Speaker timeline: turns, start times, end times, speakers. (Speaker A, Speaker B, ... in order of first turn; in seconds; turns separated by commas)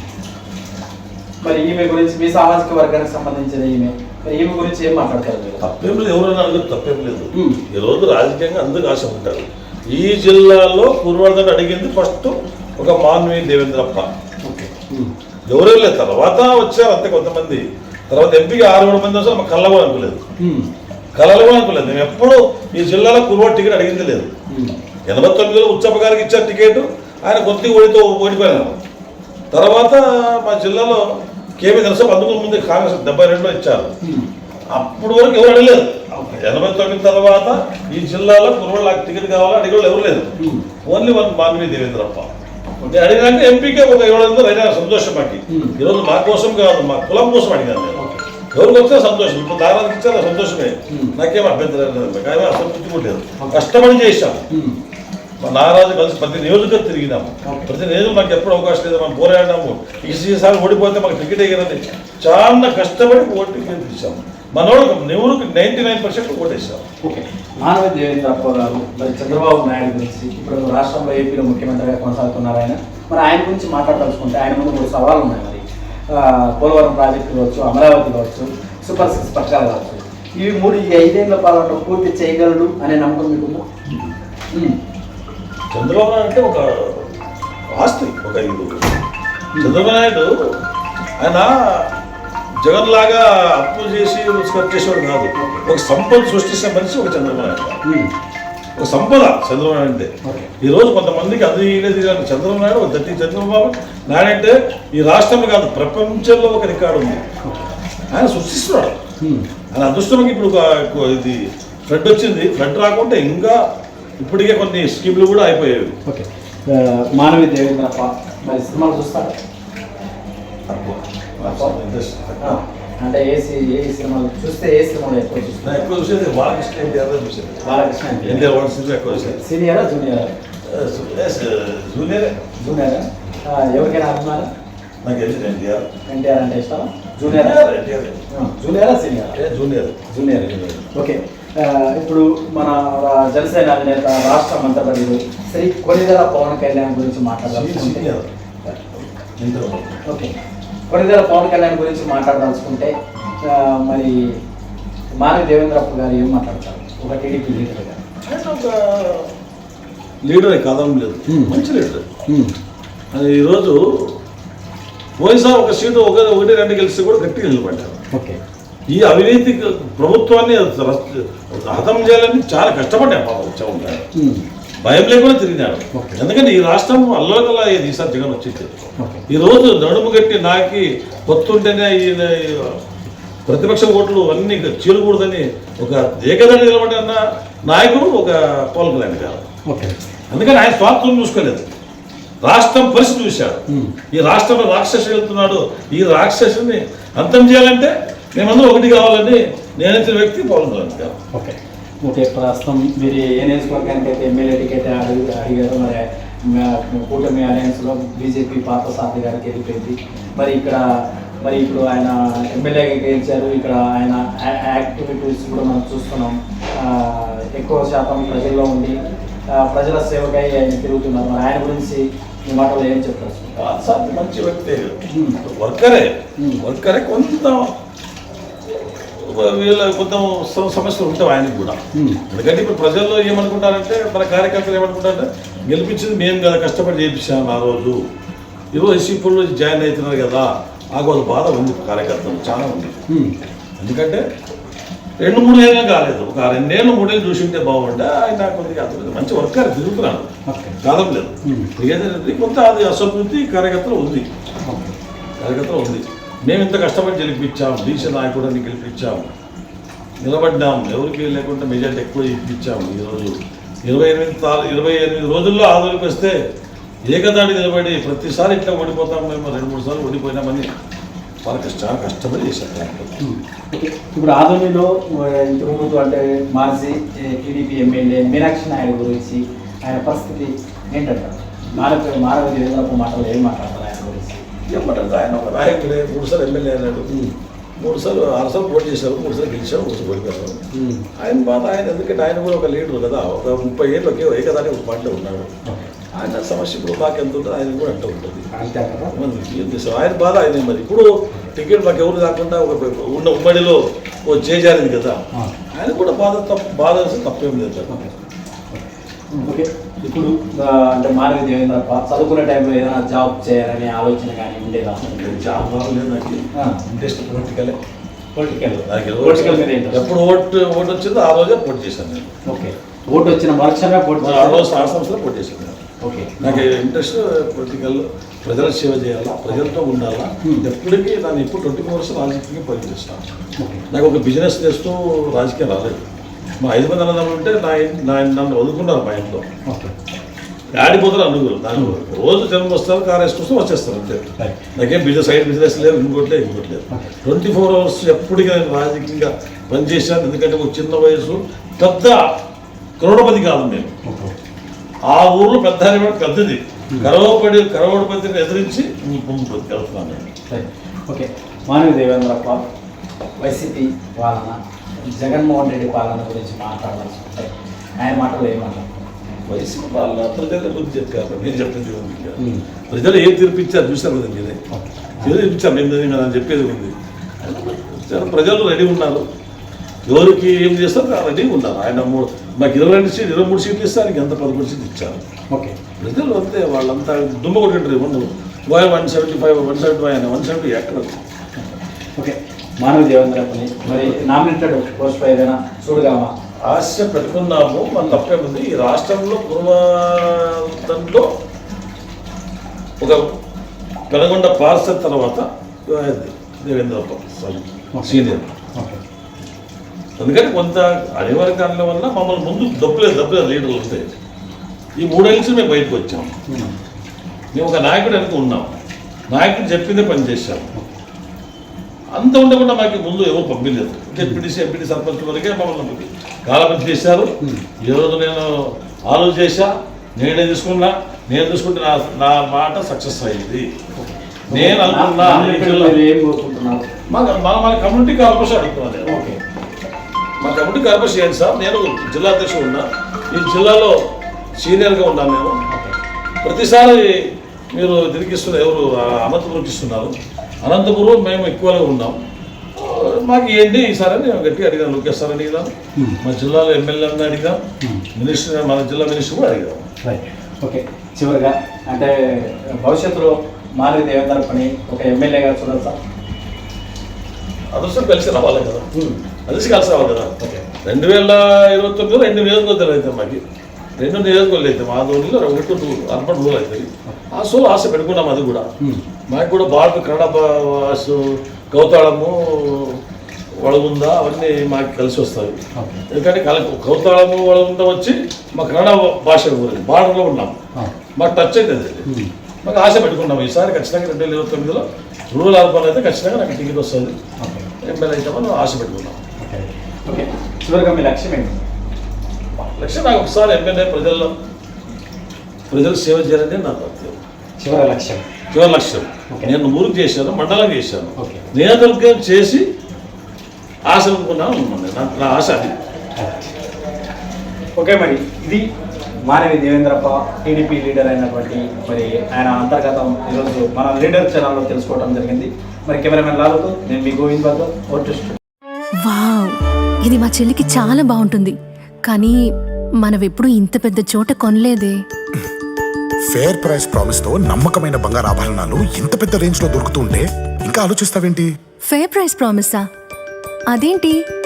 Speaker A: 1.4-5.6, Speaker B: 5.6-14.1, Speaker A: 7.3-7.6, Speaker A: 14.4-15.1, Speaker B: 15.5-20.2, Speaker A: 20.4-20.7, Speaker B: 21.1-24.3, Speaker A: 24.5-24.8, Speaker B: 25.1-28.8, Speaker B: 29.5-33.9, Speaker A: 34.0-34.3, Speaker B: 34.7-42.3, Speaker A: 36.1-36.4, Speaker A: 40.4-40.7, Speaker B: 42.8-54.4, Speaker A: 45.5-45.8, Speaker A: 47.9-48.2, Speaker A: 50.9-51.1, Speaker A: 54.5-54.8, Speaker B: 55.4-66.8, Speaker A: 57.4-57.7, Speaker A: 67.0-83.6, Speaker A: 84.5-84.8, Speaker B: 85.7-87.1, Speaker B: 87.7-89.0, Speaker B: 89.6-90.5, Speaker B: 91.2-91.9, Speaker B: 92.6-97.8, Speaker A: 95.3-95.6, Speaker A: 97.8-98.1, Speaker B: 98.8-107.2, Speaker A: 100.2-100.5, Speaker A: 107.4-107.7, Speaker B: 108.1-109.0, Speaker A: 109.2-109.5, Speaker B: 109.7-113.6, Speaker B: 114.2-116.0, Speaker A: 116.0-119.4, Speaker B: 120.7-122.6, Speaker A: 121.4-121.7, Speaker A: 122.4-125.9, Speaker B: 125.6-129.4, Speaker A: 127.6-128.5, Speaker A: 129.1-130.3, Speaker B: 130.7-132.5, Speaker A: 132.6-134.5, Speaker B: 135.0-135.9, Speaker A: 136.1-137.6, Speaker B: 137.2-138.2, Speaker A: 138.3-139.4, Speaker B: 139.3-140.9, Speaker A: 140.1-148.1, Speaker B: 147.5-150.0, Speaker A: 150.1-150.3, Speaker A: 150.9-154.4, Speaker A: 155.2-158.0, Speaker B: 158.2-159.3, Speaker B: 160.2-162.0, Speaker A: 161.3-161.5, Speaker A: 162.3-162.5, Speaker B: 163.1-164.1, Speaker B: 165.2-168.0, Speaker A: 168.1-168.4, Speaker B: 168.9-174.1, Speaker A: 174.1-174.4, Speaker B: 174.8-182.8, Speaker A: 175.9-176.2, Speaker A: 179.0-179.2, Speaker B: 183.4-189.5, Speaker A: 189.7-190.0, Speaker B: 190.3-191.6, Speaker B: 192.4-201.2, Speaker A: 193.7-193.9, Speaker A: 201.3-210.8, Speaker A: 211.4-223.7, Speaker B: 223.6-227.7, Speaker A: 225.1-225.4, Speaker A: 226.4-226.6, Speaker B: 229.2-238.0, Speaker A: 231.9-232.2, Speaker B: 238.7-243.0, Speaker A: 243.1-243.4, Speaker B: 243.8-244.2, Speaker B: 245.2-250.3, Speaker A: 250.5-250.8, Speaker B: 250.8-254.3, Speaker A: 251.4-251.7, Speaker A: 254.7-254.9, Speaker B: 255.4-259.3, Speaker B: 260.2-266.4, Speaker B: 267.1-270.7, Speaker B: 271.4-273.2, Speaker A: 273.2-284.4, Speaker B: 284.7-287.2, Speaker A: 287.1-287.3, Speaker B: 287.8-290.6, Speaker A: 290.7-291.1, Speaker B: 291.2-295.5, Speaker A: 295.6-295.9, Speaker B: 296.1-298.4, Speaker A: 298.5-299.1, Speaker B: 299.1-308.1, Speaker A: 308.7-315.1, Speaker B: 315.0-317.8, Speaker A: 318.3-320.1, Speaker B: 318.8-322.3, Speaker A: 322.4-324.7, Speaker B: 324.2-325.8, Speaker A: 326.0-326.7, Speaker B: 326.4-333.2, Speaker A: 329.5-329.7, Speaker A: 330.4-330.7, Speaker A: 333.6-333.8, Speaker B: 333.9-336.0, Speaker B: 336.6-339.5, Speaker A: 339.6-339.9, Speaker B: 340.7-344.2, Speaker B: 344.7-352.3, Speaker B: 353.0-353.9, Speaker A: 354.0-354.3, Speaker B: 355.1-360.3, Speaker A: 360.5-362.6, Speaker A: 363.4-368.9, Speaker B: 369.5-372.4, Speaker A: 372.4-372.6, Speaker B: 372.9-374.6, Speaker A: 374.7-375.4, Speaker B: 375.2-379.2, Speaker B: 380.1-385.2, Speaker A: 385.5-385.8, Speaker B: 386.0-391.2, Speaker A: 391.6-396.3, Speaker B: 393.9-394.1, Speaker B: 396.6-401.3, Speaker B: 404.1-408.5, Speaker A: 407.9-409.0, Speaker B: 410.2-414.1, Speaker B: 415.0-416.3, Speaker A: 416.5-416.8, Speaker B: 417.5-418.7, Speaker B: 419.3-420.7, Speaker B: 422.1-433.7, Speaker A: 433.9-436.9, Speaker B: 434.5-436.0, Speaker B: 437.1-439.2, Speaker A: 439.1-439.4, Speaker B: 440.4-444.0, Speaker B: 444.6-445.6, Speaker A: 445.7-445.9, Speaker B: 446.4-452.1, Speaker B: 452.8-457.6, Speaker B: 458.1-459.8, Speaker A: 460.0-466.0, Speaker B: 467.7-468.9, Speaker A: 468.9-469.2, Speaker B: 469.5-473.4, Speaker A: 470.4-470.6, Speaker B: 474.0-478.7, Speaker B: 479.3-483.0, Speaker B: 483.6-485.6, Speaker A: 485.7-486.0, Speaker B: 486.1-490.6, Speaker B: 491.2-492.1, Speaker A: 492.1-492.3, Speaker B: 492.6-497.1, Speaker A: 497.4-497.7, Speaker B: 497.8-499.2, Speaker A: 499.4-501.6, Speaker B: 502.6-504.3, Speaker B: 505.7-507.2, Speaker A: 507.6-508.2, Speaker B: 508.5-512.6, Speaker A: 511.2-511.5, Speaker B: 513.9-515.7, Speaker A: 516.2-516.5, Speaker A: 517.8-518.7, Speaker A: 519.3-528.4, Speaker C: 529.0-532.4, Speaker C: 533.0-535.0, Speaker D: 536.3-541.5, Speaker C: 541.9-542.8, Speaker C: 543.7-544.2